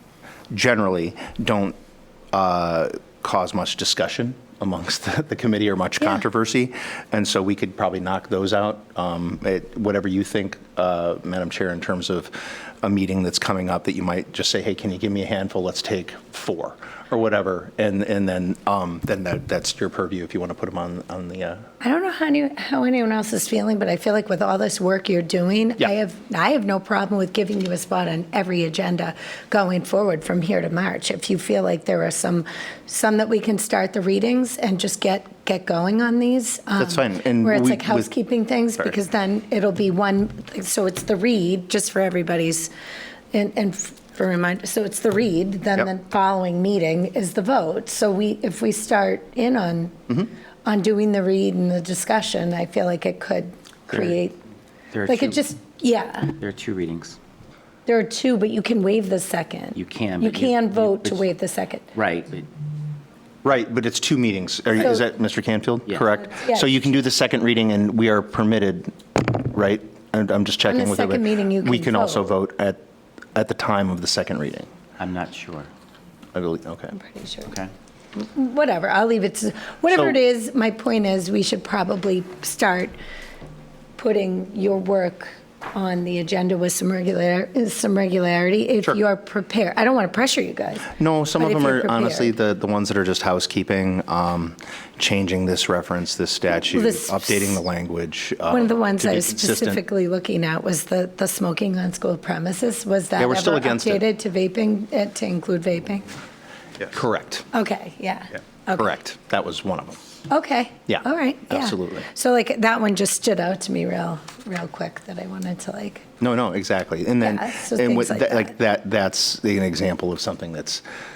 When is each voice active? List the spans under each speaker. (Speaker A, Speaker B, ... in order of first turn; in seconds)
Speaker A: 0.5-1.8, 2.3-21.6, 36.8-38.1, 63.4-72.8, 73.3-74.7, 76.3-77.0, 90.9-99.8, 103.2-104.0, 106.8-107.5, 108.7-110.0, 110.9-112.0, 116.2-120.8
Speaker B: 21.8-42.7, 43.3-54.4, 55.1-56.4, 57.9-61.9, 66.3-66.7, 70.7-72.3, 77.0-77.5, 78.1-83.0, 84.0-92.3, 96.7-97.6, 98.5-106.1, 107.5-108.9, 110.3-116.1, 117.2-118.5
Speaker C: 53.9-54.1, 54.9-55.4, 56.4-57.2, 59.7-61.3, 61.9-62.5, 75.0-75.7, 77.5-77.7